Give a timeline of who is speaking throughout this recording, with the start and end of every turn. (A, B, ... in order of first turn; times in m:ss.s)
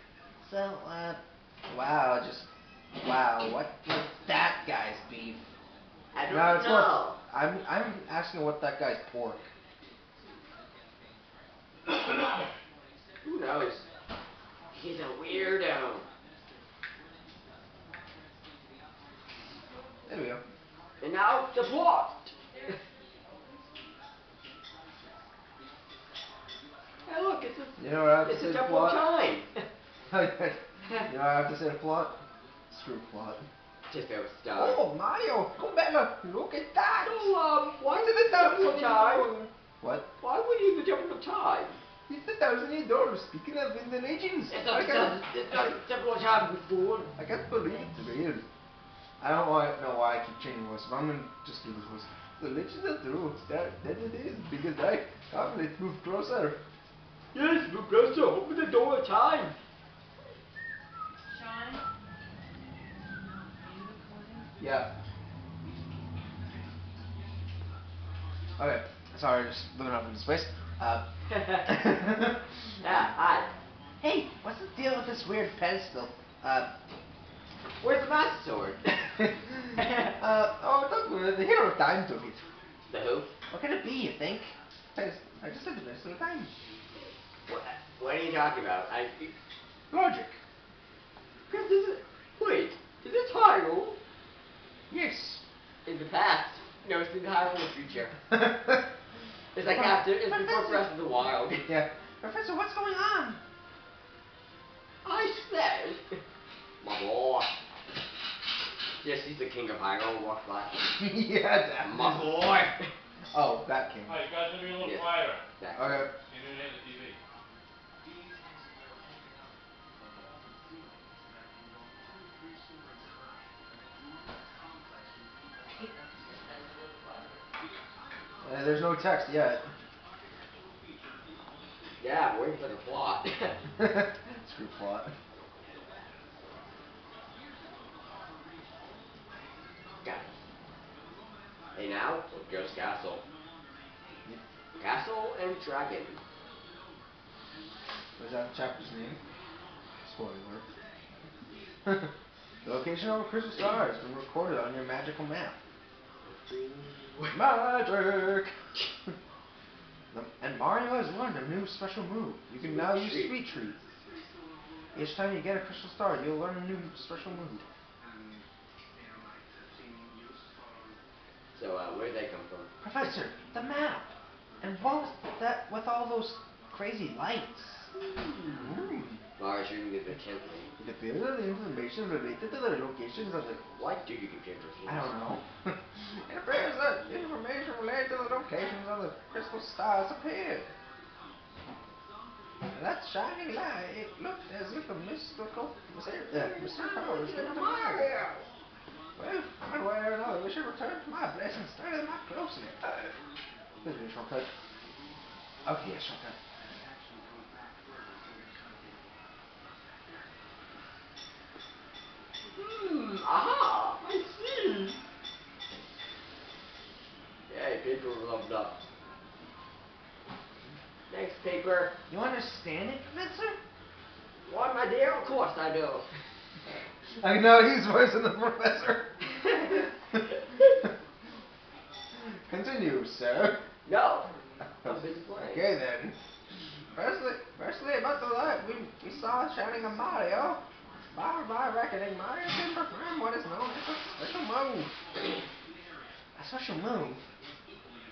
0:00.4-0:05.5 A
0:06.1-0:07.2 B
0:06.3-0:09.5 A
0:13.2-0:13.9 B
0:14.7-0:16.0 B
0:20.0-0:20.4 A
0:21.0-0:22.3 B
0:22.5-0:23.6 C
0:27.0-0:29.6 B
0:27.8-0:29.0 A
0:30.1-0:32.2 A
0:32.7-0:33.5 A
0:33.9-0:34.8 B
0:34.6-0:37.3 A
0:37.0-0:39.3 B
0:37.9-0:40.1 A
0:40.2-0:41.8 B
0:42.1-0:45.8 A
0:44.5-0:47.1 B
0:47.2-0:48.4 A
0:49.2-0:56.6 A
0:57.3-0:59.6 B
1:01.3-1:01.8 C
1:03.5-1:04.5 C
1:04.6-1:04.9 A
1:08.6-1:11.0 A
1:11.3-1:11.7 B
1:11.6-1:12.4 A
1:12.8-1:13.5 B
1:14.0-1:16.7 A
1:17.8-1:18.9 B
1:19.2-1:22.5 A
1:19.8-1:20.1 B
1:22.9-1:23.3 B
1:23.5-1:26.5 A
1:27.4-1:29.3 B
1:29.9-1:30.4 A
1:31.5-1:34.0 B
1:34.9-1:35.4 A
1:35.8-1:38.1 B
1:38.3-1:38.9 A
1:39.5-1:41.7 B
1:39.6-1:40.8 A
1:41.6-1:43.4 A
1:45.0-1:46.2 B
1:46.8-1:47.5 B
1:49.0-1:51.0 B
1:50.9-1:52.7 A
1:51.8-1:52.9 B
1:53.3-1:54.2 A
1:54.0-1:55.5 D
1:54.8-1:56.1 B
1:55.8-1:56.1 A
1:56.2-1:57.2 D
2:05.6-2:07.5 C
2:08.4-2:09.6 A
2:12.0-2:13.6 B
2:13.8-2:15.1 A
2:20.0-2:20.3 B
2:21.7-2:23.2 B
2:24.8-2:26.2 B
2:28.2-2:29.2 A
2:30.0-2:30.6 A
2:32.6-2:35.6 A
2:36.2-2:37.4 B
2:37.3-2:38.6 A
2:40.1-2:43.8 A
2:42.6-2:43.3 B
2:44.9-2:47.6 A
2:51.5-2:52.7 B
2:52.8-2:57.9 A
2:57.9-2:58.8 B
2:58.6-2:59.2 A
2:59.4-3:00.7 B
3:00.8-3:03.6 A
3:03.7-3:05.1 B
3:04.8-3:10.7 A
3:12.7-3:18.1 A
3:16.3-3:18.5 B
3:19.2-3:23.0 A
3:23.8-3:24.5 A
3:25.6-3:26.4 A
3:32.5-3:35.0 B
3:37.5-3:38.8 B
3:41.1-3:41.9 B
3:42.1-3:43.6 A
3:44.4-3:46.1 B
3:47.2-3:49.1 A
3:52.5-3:53.6 A
3:53.8-3:54.3 B
3:54.8-3:55.7 B
3:54.8-3:56.2 A
3:56.9-4:05.0 A
4:06.4-4:07.2 A